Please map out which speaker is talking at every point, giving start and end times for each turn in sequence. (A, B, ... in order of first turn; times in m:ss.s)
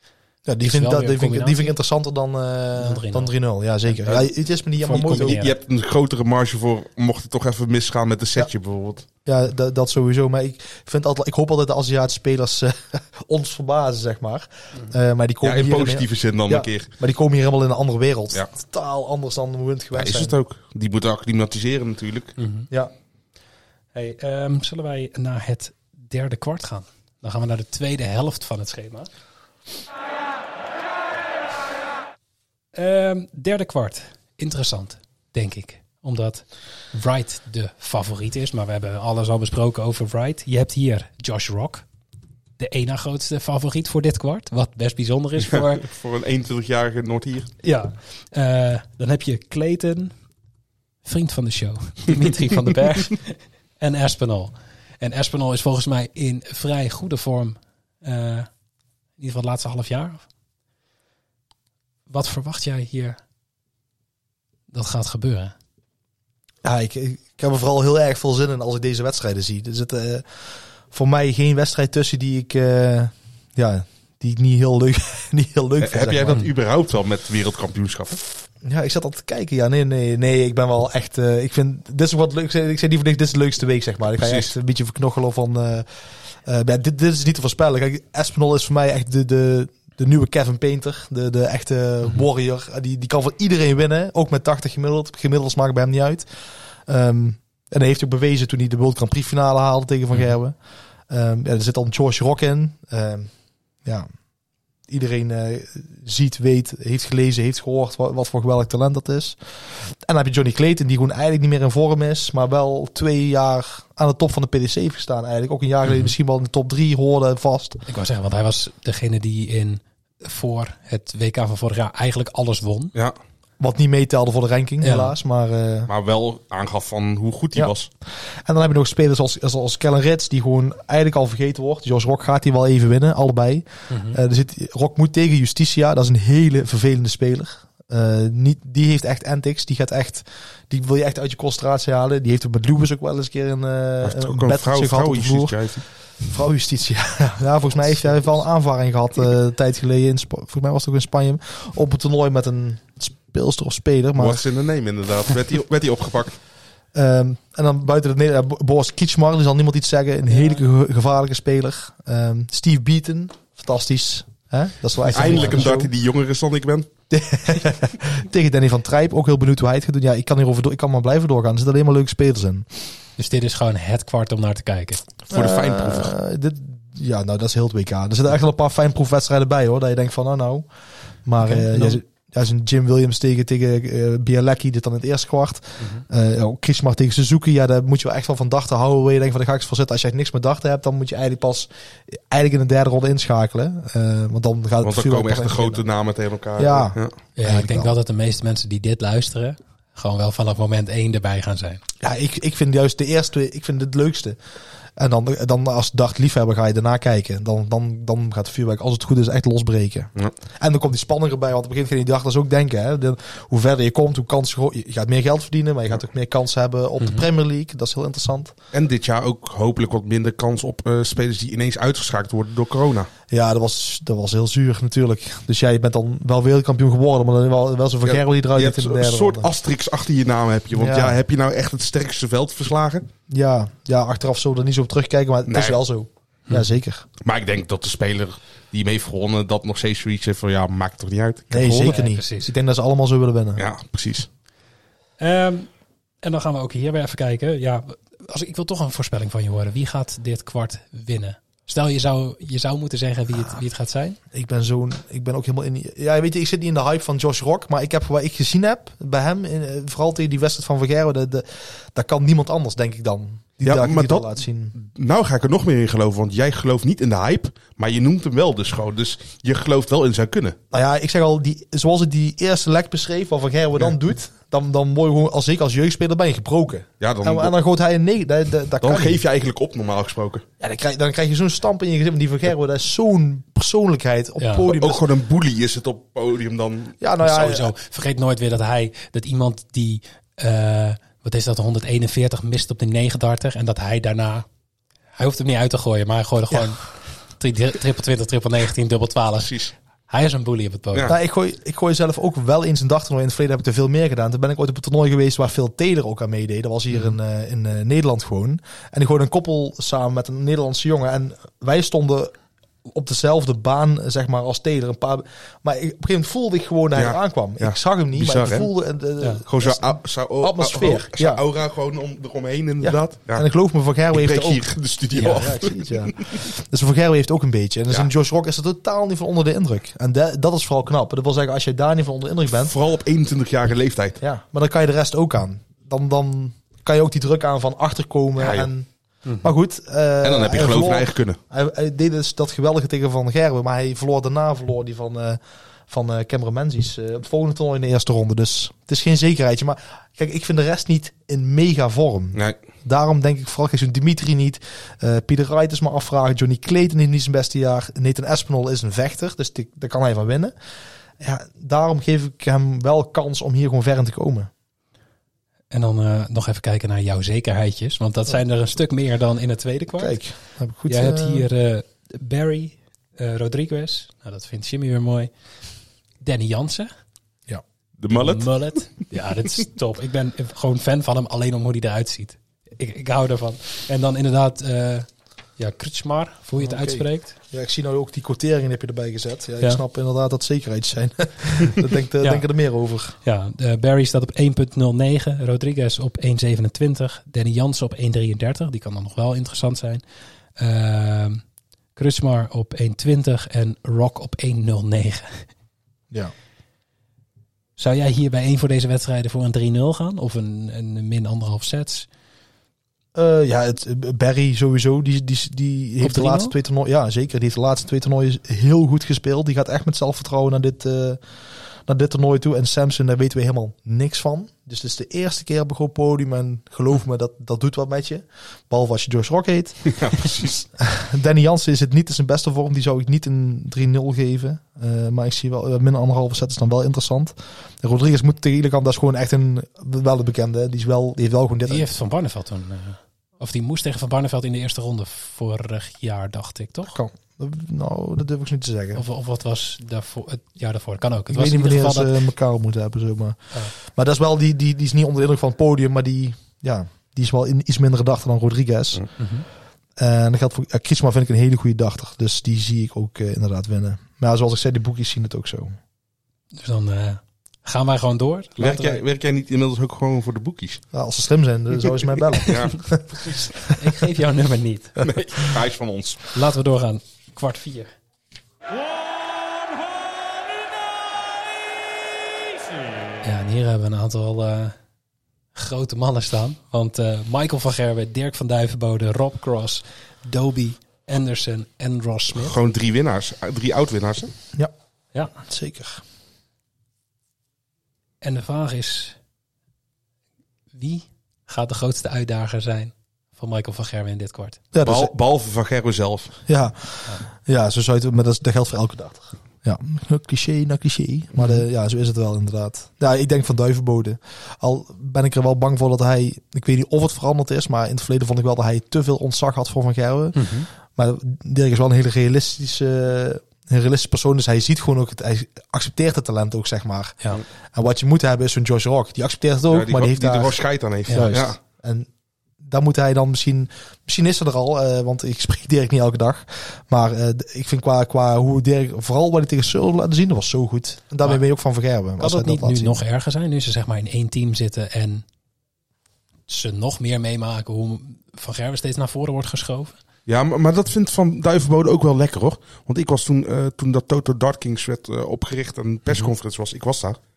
0:00.5-0:05.4 A
0:00.6-0:01.7 B
0:02.8-0:03.3 B
0:04.8-0:05.6 B
0:04.9-0:09.0 C
0:09.2-0:20.4 A
0:15.4-0:16.9 C
0:20.0-0:22.4 C
0:22.4-0:22.7 B
0:23.9-0:29.1 B
0:32.8-0:41.9 B
0:42.6-0:45.9 B
0:45.4-0:47.5 C
0:47.6-0:50.1 B
0:51.0-0:58.5 B
0:59.2-1:00.3 B
1:02.1-1:03.2 B
1:04.7-1:05.5 B
1:06.6-1:16.5 A
1:15.8-1:18.2 C
1:18.6-1:25.9 A
1:24.2-1:24.5 C
1:26.4-1:36.3 A
1:36.9-1:40.6 A
1:41.1-1:43.3 A
1:44.9-1:57.8 A
1:57.9-2:02.9 B
2:03.6-2:05.9 A
2:04.8-2:05.1 B
2:05.9-2:07.9 C
2:08.3-2:25.6 A
2:13.9-2:14.2 B
2:24.0-2:25.8 C
2:26.2-2:34.4 A
2:34.2-2:36.4 C
2:36.9-2:45.9 A
2:40.3-2:40.6 B
2:45.1-2:45.6 B
2:45.1-2:46.9 C
2:47.1-2:52.7 A
2:53.2-2:55.0 B
2:55.3-2:56.1 C
2:55.3-3:00.7 A
3:01.2-3:15.8 A
3:01.4-3:02.0 B
3:14.8-3:17.1 C
3:16.6-3:17.9 A
3:17.4-3:21.8 B
3:22.0-3:24.4 A
3:25.0-3:38.5 A
3:37.0-3:37.3 B
3:38.7-3:43.1 C
3:43.3-3:49.5 A
3:48.0-3:53.1 C
3:50.7-3:51.2 A
3:53.3-3:57.0 A
3:55.5-3:55.8 C
3:57.2-4:02.0 C
4:01.5-4:03.6 A
4:01.8-4:02.5 B
4:03.6-4:04.3 C
4:05.2-4:05.7 B
4:06.2-4:14.2 B
4:14.3-4:24.8 A
4:23.6-4:30.6 C
4:30.7-4:39.2 A
4:37.0-4:37.6 C
4:38.8-4:40.4 C
4:40.6-4:45.1 A
4:44.4-4:44.7 B
4:44.7-4:47.0 C
4:47.0-4:47.7 A
4:47.2-4:54.5 B
4:55.2-5:01.2 B
5:01.1-5:12.3 A
5:12.8-5:21.4 A
5:17.0-5:18.7 C
5:19.5-5:23.5 C
5:22.8-5:32.8 A
5:24.1-5:26.3 C
5:32.6-5:34.2 C
5:34.2-5:38.9 A
5:38.4-5:38.7 C
5:39.4-6:00.5 A
5:40.2-5:41.4 C
6:01.2-6:04.5 A
6:05.7-6:10.2 B
6:10.0-6:11.5 A
6:10.9-6:15.3 B
6:16.2-6:16.9 B
6:18.0-6:18.5 C
6:18.1-6:27.4 B
6:26.6-6:33.2 A
6:32.2-6:32.5 B
6:33.2-6:40.0 B
6:40.6-6:41.4 B
6:42.0-6:45.5 B
6:47.8-6:52.1 B
6:53.2-7:01.2 A
6:56.0-6:56.5 B
7:01.9-7:21.9 A
7:09.9-7:10.6 C
7:21.7-7:27.0 B
7:26.9-7:29.0 A
7:29.0-7:32.2 B
7:31.3-7:39.1 A
7:39.2-7:39.5 B
7:40.0-7:45.8 A
7:46.5-7:49.0 B
7:48.6-7:50.8 C
7:50.9-7:53.1 A
7:52.4-7:53.6 C
7:53.7-7:55.2 B
7:55.0-7:56.3 C
7:56.3-7:57.9 B
8:03.2-8:04.8 B
8:05.6-8:12.6 B
8:12.4-8:14.3 C
8:15.4-8:16.0 A
8:18.2-8:19.2 B
8:20.7-8:24.6 B
8:24.7-8:25.1 A
8:24.8-8:26.4 C
8:26.5-8:47.2 A
8:40.4-8:40.7 B
8:47.7-8:52.1 A
8:49.7-8:51.6 C
8:52.6-9:03.0 A
9:02.2-9:05.2 B
9:06.5-9:10.0 B
9:10.3-9:17.2 C